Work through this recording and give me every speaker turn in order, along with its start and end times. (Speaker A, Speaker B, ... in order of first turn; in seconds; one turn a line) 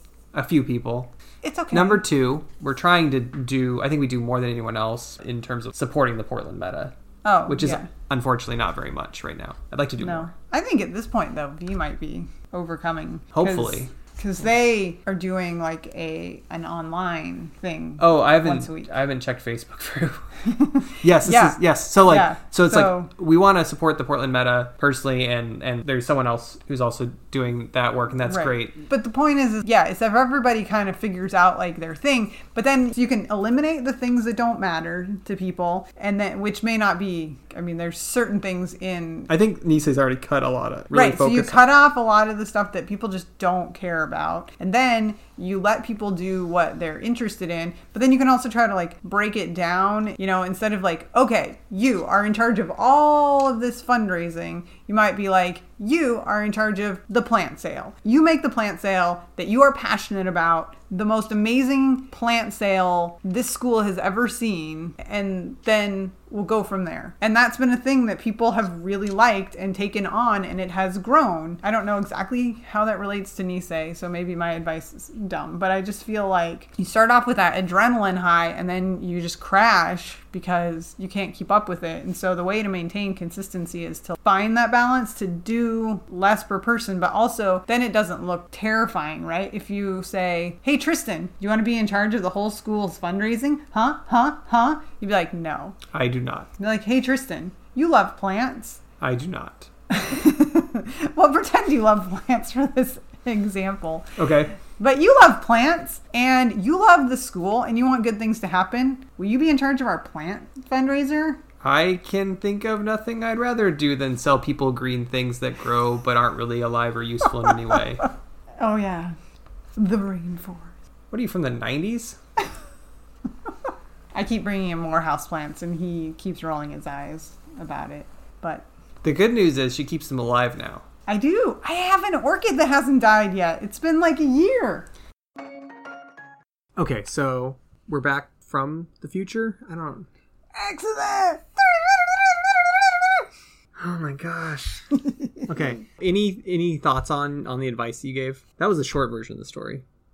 Speaker A: 0.3-1.1
Speaker B: 1.4-2.0
Speaker A: 1.7-7.0
Speaker B: 7.2-7.9
Speaker A: 7.5-10.3
Speaker B: 10.0-18.9
Speaker A: 13.3-13.9
Speaker A: 18.0-20.3
Speaker B: 20.4-23.1
Speaker A: 21.0-28.8
Speaker B: 28.3-39.3
Speaker A: 39.3-41.6
Speaker B: 40.9-95.8
Speaker A: 95.9-96.5
Speaker B: 96.6-98.8
Speaker A: 99.0-99.7
Speaker B: 99.9-111.4
Speaker A: 104.2-104.5
Speaker A: 111.6-118.1
Speaker B: 118.6-119.2
Speaker B: 119.8-120.8
Speaker A: 121.1-122.2
Speaker B: 124.1-128.7
Speaker A: 129.0-130.8
Speaker B: 131.1-134.9
Speaker A: 136.8-140.1
Speaker B: 140.6-143.3
Speaker A: 143.8-149.8